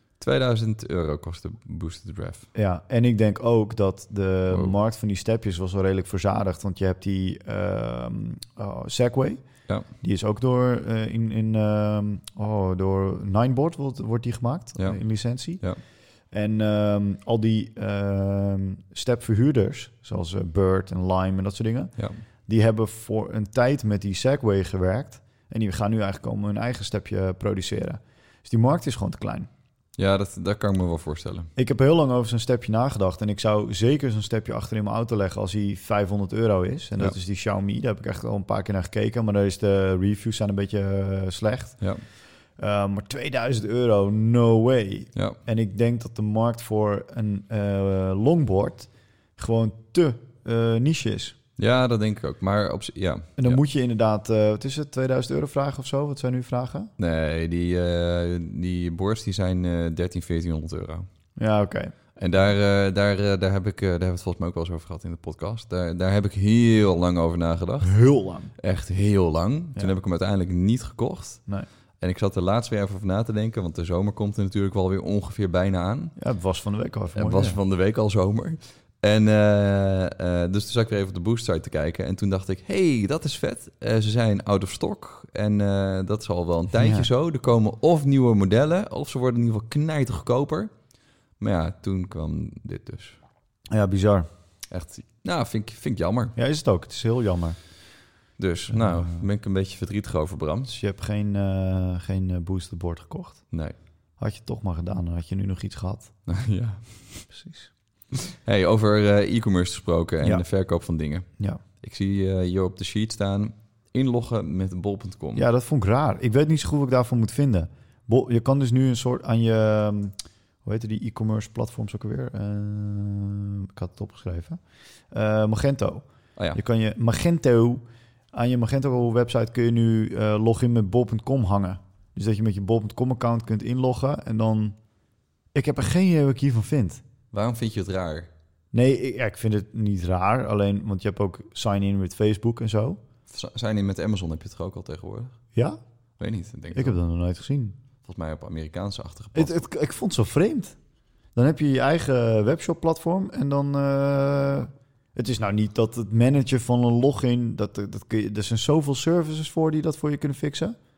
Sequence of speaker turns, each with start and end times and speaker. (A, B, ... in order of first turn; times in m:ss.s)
0:00.2-0:02.5 A
0:02.5-0:09.4 B
0:10.0-0:15.6 B
0:16.3-0:21.9 B
0:22.5-0:29.5 B
0:30.0-0:31.5 A
0:31.6-0:41.8 B
0:42.6-0:51.4 B
0:51.6-0:53.6 A
0:53.4-0:56.9 B
0:57.0-1:01.1 A
1:01.4-1:01.9 B
1:02.2-1:07.9 A
1:07.8-1:08.5 B
1:08.6-1:11.4 A
1:12.0-1:16.1 A
1:16.2-1:17.6 B
1:17.2-1:30.7 A
1:26.8-1:27.1 B
1:31.4-1:33.2 A
1:33.7-1:34.3 B
1:34.7-1:36.4 A
1:36.4-1:37.6 B
1:38.4-1:40.7 A
1:38.7-1:39.2 B
1:40.7-1:43.4 B
1:44.2-1:46.1 B
1:46.3-1:47.2 A
1:47.3-1:47.7 B
1:48.1-1:51.3 A
1:51.8-1:55.4 A
1:55.4-2:04.6 B
2:05.1-2:14.8 B
2:15.5-2:17.0 B
2:17.3-2:18.3 A
2:18.7-2:23.0 B
2:23.3-2:25.4 A
2:26.2-2:27.0 A
2:26.7-2:27.8 B
2:28.0-2:29.5 A
2:29.4-2:30.8 B
2:31.4-2:40.8 B